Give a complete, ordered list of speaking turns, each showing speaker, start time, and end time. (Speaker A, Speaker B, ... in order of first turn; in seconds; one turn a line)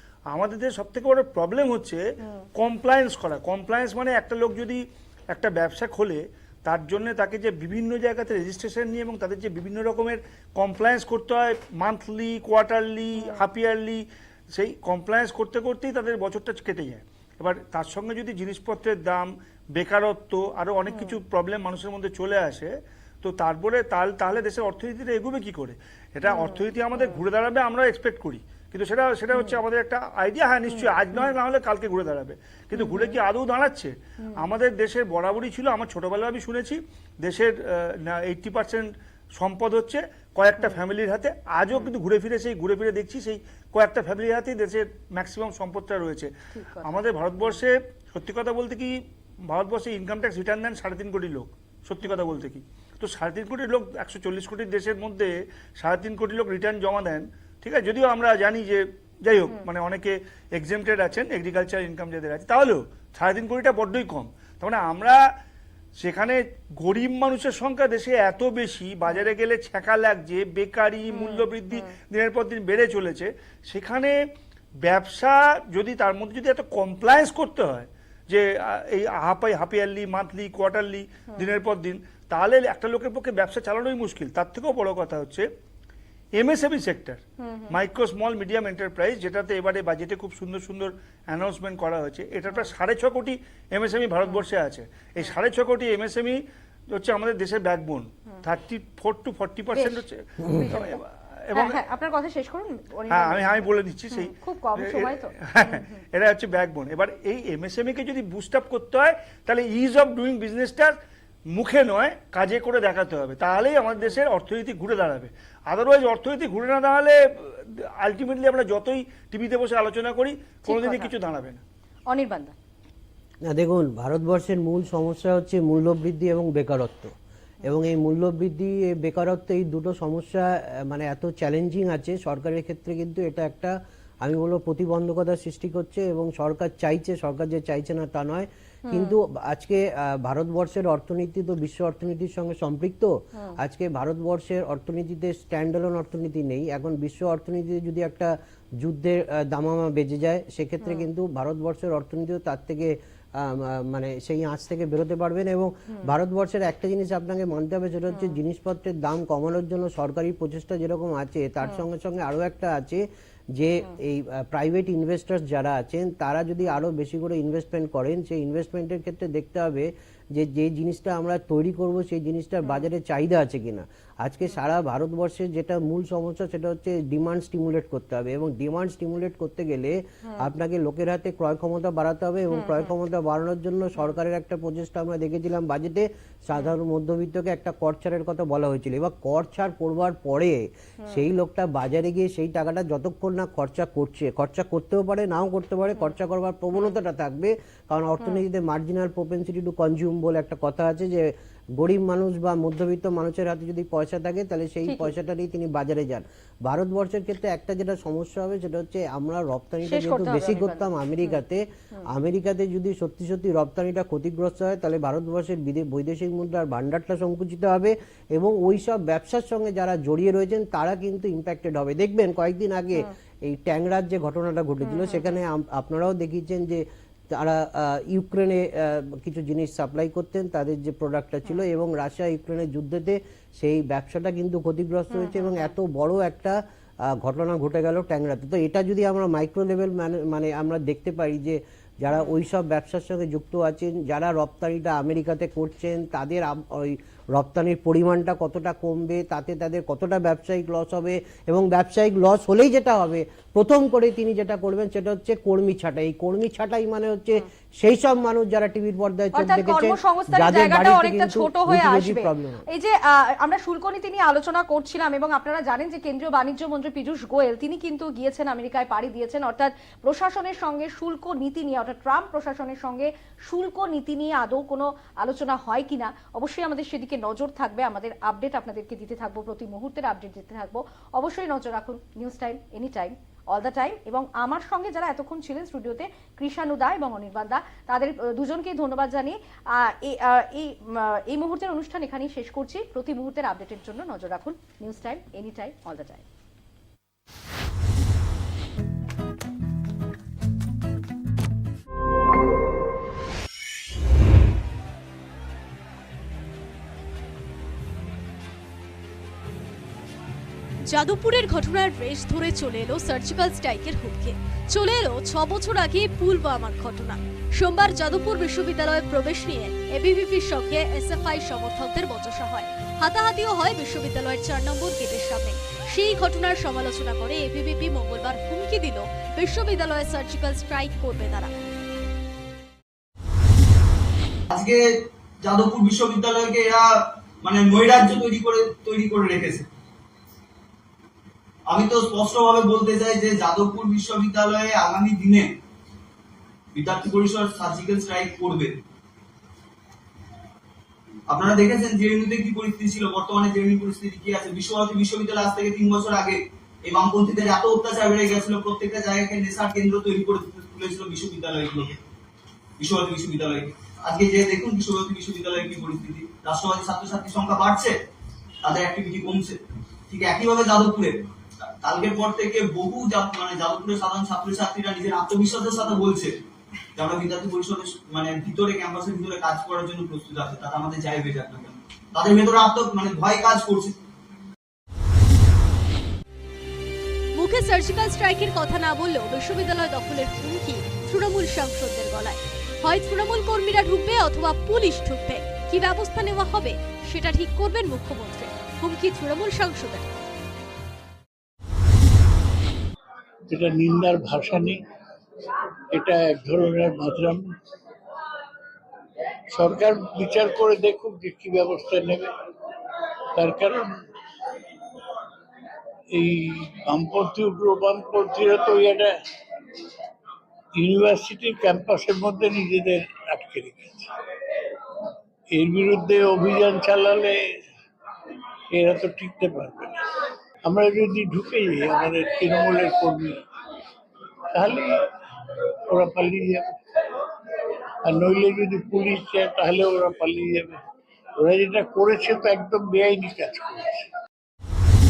Speaker A: 0.3-46.3
Speaker B: 26.3-27.2
Speaker B: 30.8-31.3
Speaker B: 32.8-33.1
Speaker B: 46.5-47.0
Speaker A: 46.8-65.2
Speaker A: 66.0-74.2
Speaker B: 71.1-71.9
Speaker A: 74.8-85.5
Speaker A: 86.3-101.8
Speaker B: 87.4-87.7
Speaker B: 99.7-101.0
Speaker B: 101.5-105.9
Speaker A: 103.1-111.0
Speaker A: 111.5-121.6
Speaker B: 120.7-121.1
Speaker B: 122.1-122.5
Speaker C: 123.5-163.0
Speaker B: 138.9-139.1
Speaker C: 163.5-262.6
Speaker B: 182.5-182.9
Speaker B: 209.9-210.9
Speaker B: 224.8-225.3
Speaker B: 235.1-235.7
Speaker B: 259.3-296.2
Speaker D: 310.9-331.5
Speaker E: 334.5-334.8
Speaker E: 335.4-339.7
Speaker E: 341.7-345.5
Speaker E: 346.7-348.7
Speaker E: 351.3-362.0
Speaker E: 362.8-367.9
Speaker E: 368.6-376.3
Speaker E: 376.9-384.0
Speaker D: 387.4-400.1
Speaker F: 403.5-404.8
Speaker F: 405.9-407.4
Speaker F: 409.5-412.3
Speaker F: 413.3-414.1
Speaker F: 416.1-419.2
Speaker F: 420.8-424.1
Speaker F: 425.5-427.6
Speaker F: 428.7-430.0
Speaker F: 430.6-433.4
Speaker F: 434.5-435.1
Speaker F: 435.9-436.7
Speaker F: 438.0-440.8
Speaker F: 441.4-444.1